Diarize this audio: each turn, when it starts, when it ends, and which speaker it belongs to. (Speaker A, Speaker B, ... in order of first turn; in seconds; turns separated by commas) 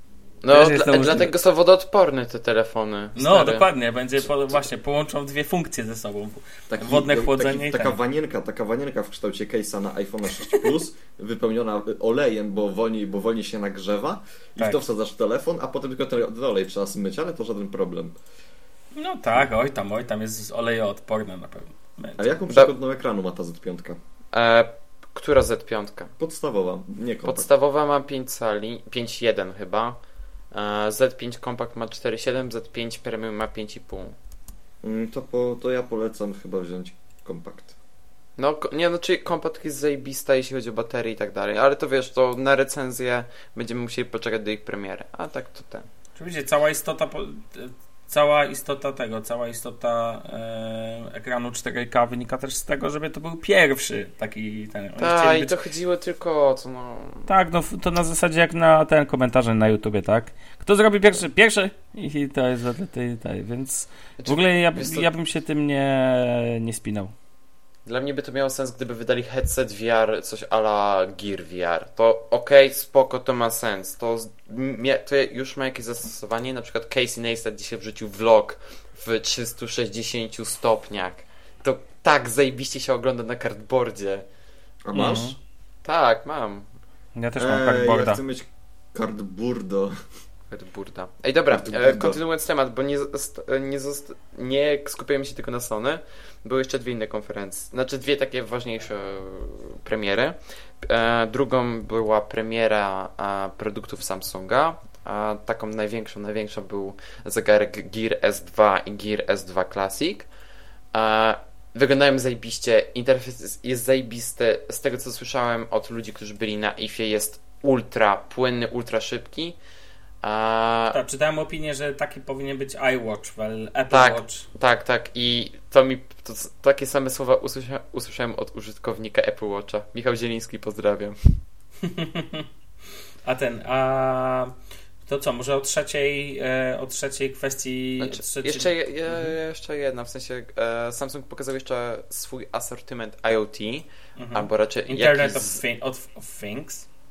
Speaker A: 0.4-3.7, Speaker B: 0.5-1.3, Speaker B: 3.2-8.0, Speaker C: 6.7-18.2, Speaker B: 18.9-22.4, Speaker C: 22.2-24.0, Speaker A: 24.3-26.1, Speaker C: 26.2-27.5, Speaker A: 27.2-30.0, Speaker A: 30.5-34.2, Speaker C: 34.8-37.7, Speaker A: 38.4-45.9, Speaker B: 46.2-55.5, Speaker A: 55.0-57.3, Speaker B: 57.3-67.1, Speaker A: 64.2-65.1, Speaker A: 67.9-84.2, Speaker C: 84.8-85.4, Speaker B: 84.9-85.4, Speaker A: 85.8-86.7, Speaker B: 87.2-88.2, Speaker C: 87.4-89.9, Speaker A: 90.5-110.3, Speaker C: 91.5-92.2, Speaker A: 110.9-119.6, Speaker A: 120.2-121.0, Speaker B: 120.9-124.5, Speaker A: 123.9-131.4, Speaker B: 131.8-132.5, Speaker B: 133.3-134.5, Speaker B: 135.1-139.3, Speaker A: 138.0-145.6, Speaker B: 144.2-146.9